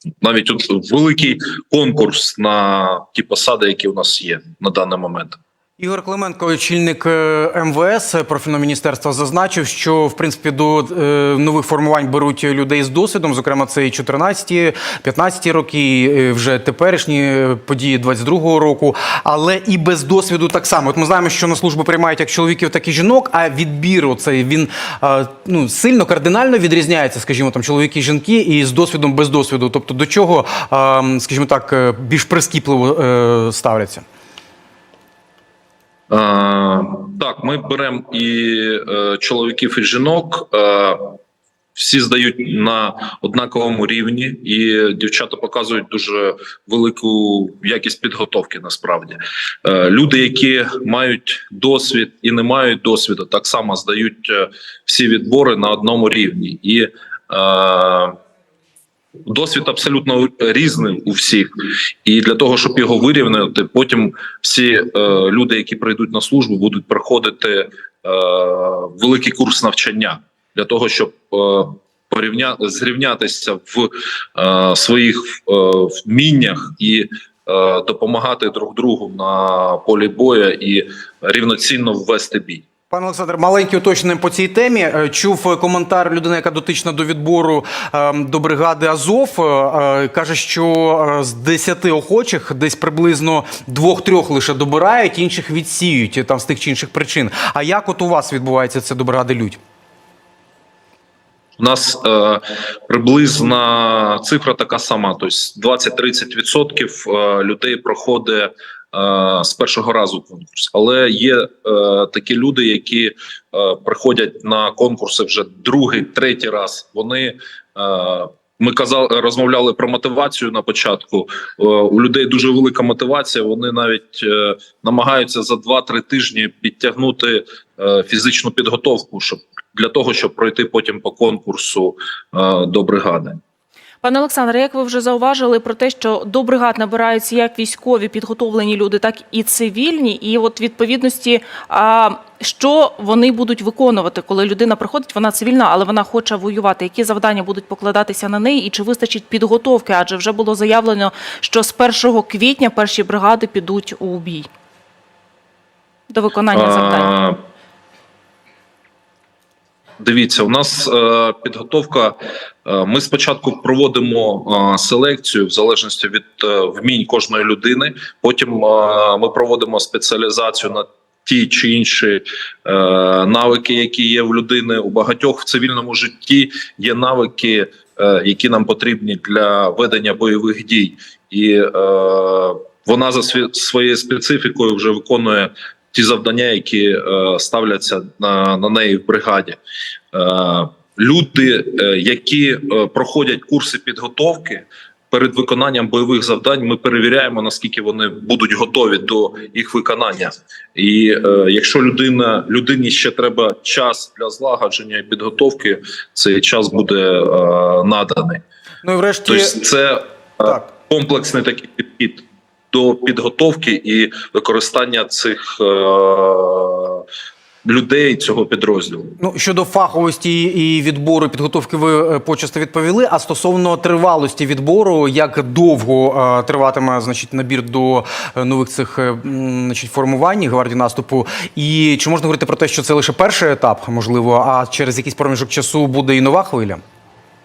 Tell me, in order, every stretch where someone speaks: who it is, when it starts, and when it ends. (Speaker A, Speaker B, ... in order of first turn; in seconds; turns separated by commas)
Speaker A: 0.2-5.4, Speaker B: 5.8-34.0, Speaker A: 36.1-41.2, Speaker A: 41.8-58.1, Speaker A: 59.3-82.7, Speaker B: 82.9-99.6, Speaker A: 101.6-133.4, Speaker C: 134.0-154.5, Speaker C: 156.1-157.1, Speaker A: 156.5-157.4, Speaker A: 160.0-189.6, Speaker A: 190.1-208.4, Speaker B: 208.8-209.6, Speaker A: 209.3-217.1, Speaker A: 217.6-219.2, Speaker B: 219.2-236.8